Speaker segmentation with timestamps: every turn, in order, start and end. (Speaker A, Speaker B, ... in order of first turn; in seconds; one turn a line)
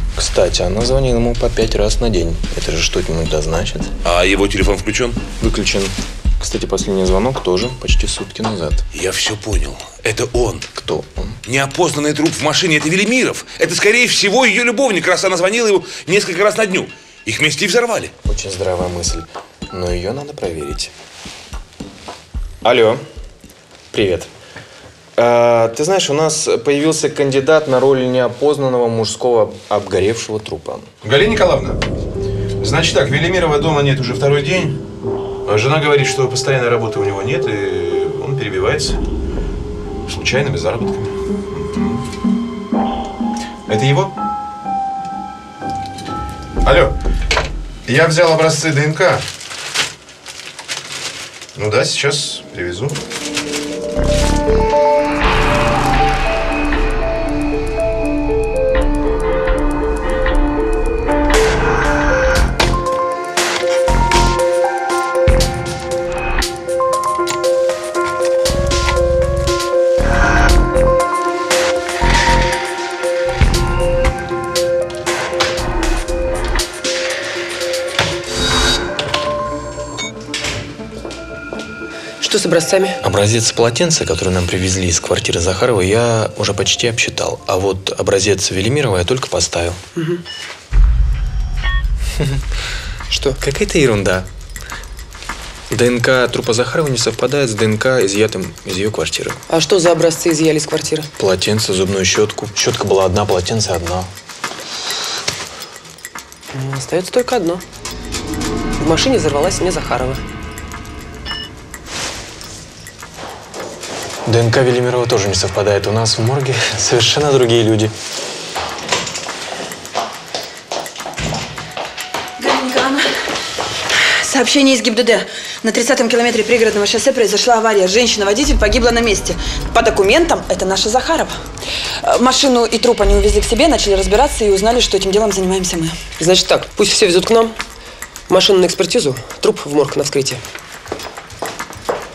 Speaker A: 0.1-3.9
Speaker B: 4.0-5.2
Speaker A: 5.4-8.8
Speaker B: 8.9-10.7
Speaker A: 10.7-11.4
Speaker B: 11.4-18.1
Speaker A: 18.2-20.9
Speaker A: 22.6-23.0
Speaker A: 23.9-24.3
Speaker A: 25.2-30.9
Speaker C: 31.0-31.8
Speaker C: 32.6-34.8
Speaker C: 35.4-39.0
Speaker C: 40.1-42.0
Speaker C: 43.7-44.1
Speaker C: 46.6-46.9
Speaker C: 47.9-49.2
Speaker C: 51.5-53.0
Speaker D: 82.2-83.0
Speaker A: 83.0-89.8
Speaker D: 90.0-90.2
Speaker D: 93.1-93.4
Speaker A: 93.4-94.3
Speaker A: 95.7-99.4
Speaker D: 99.5-101.1
Speaker A: 101.2-104.1
Speaker D: 106.5-107.6
Speaker D: 108.8-110.2
Speaker A: 114.2-117.9
Speaker E: 122.4-123.0
Speaker E: 124.2-131.3
Speaker E: 132.0-136.0
Speaker D: 136.2-137.6
Speaker D: 138.3-140.4